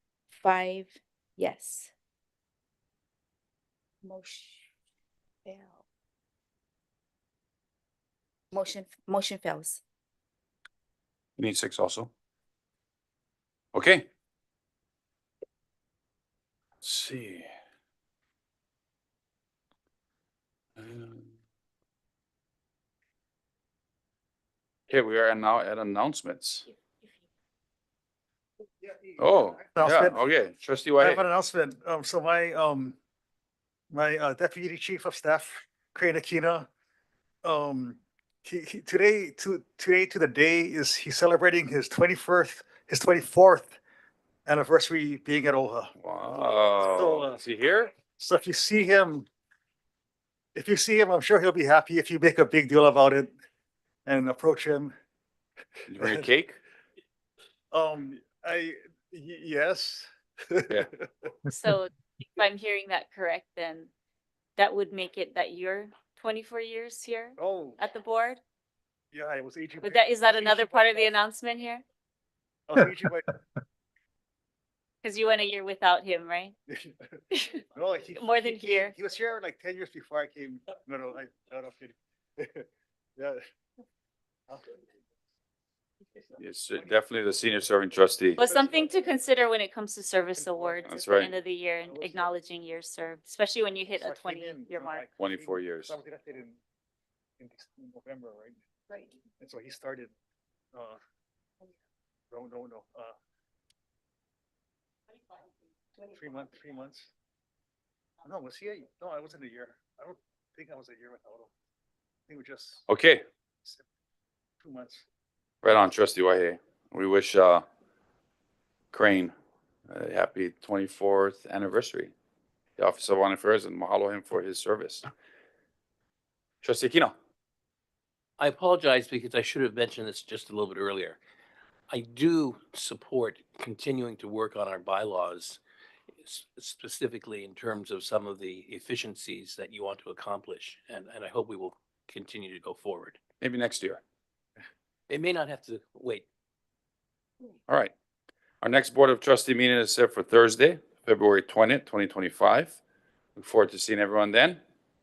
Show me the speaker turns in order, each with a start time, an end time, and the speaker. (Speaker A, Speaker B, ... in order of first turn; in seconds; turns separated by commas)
Speaker A: 0.3-1.9, Speaker A: 4.0-4.7, Speaker A: 5.5-5.8, Speaker A: 8.5-9.8, Speaker B: 11.4-12.1, Speaker B: 13.7-14.1, Speaker B: 16.8-17.5, Speaker B: 20.8-21.3, Speaker B: 24.9-26.7, Speaker B: 29.2-31.2, Speaker C: 29.8-30.2, Speaker C: 31.0-33.0, Speaker C: 33.9-36.7, Speaker C: 37.4-43.8, Speaker C: 44.5-45.9, Speaker B: 46.0-47.9, Speaker C: 47.0-47.4, Speaker C: 48.1-49.3, Speaker C: 50.5-53.3, Speaker C: 54.1-54.9, Speaker B: 55.9-56.6, Speaker C: 56.0-56.3, Speaker C: 57.7-61.3, Speaker D: 61.5-63.9, Speaker D: 64.6-68.4, Speaker C: 67.4-67.8, Speaker C: 69.1-71.2, Speaker D: 69.8-71.8, Speaker C: 72.7-73.3, Speaker D: 75.0-76.5, Speaker C: 76.7-77.1, Speaker C: 77.7-83.4, Speaker D: 78.2-78.9, Speaker B: 86.4-88.4, Speaker D: 88.4-95.0, Speaker C: 88.4-88.9, Speaker C: 90.4-90.8, Speaker B: 90.8-91.3, Speaker C: 91.9-92.3, Speaker C: 94.0-96.6, Speaker B: 95.2-96.0, Speaker C: 97.4-98.6, Speaker C: 99.4-100.1, Speaker C: 100.7-101.0, Speaker C: 102.3-103.2, Speaker C: 106.1-107.1, Speaker C: 108.2-111.5, Speaker C: 112.3-112.8, Speaker B: 112.9-113.2, Speaker C: 114.6-115.0, Speaker B: 115.6-117.7, Speaker B: 118.9-119.3, Speaker B: 119.9-122.1, Speaker B: 122.8-125.1, Speaker B: 126.6-127.1, Speaker E: 128.4-131.2, Speaker E: 131.9-135.6, Speaker E: 136.2-143.2, Speaker B: 143.4-144.0, Speaker E: 145.1-146.3, Speaker B: 147.7-147.9, Speaker B: 148.6-152.8, Speaker B: 153.4-154.6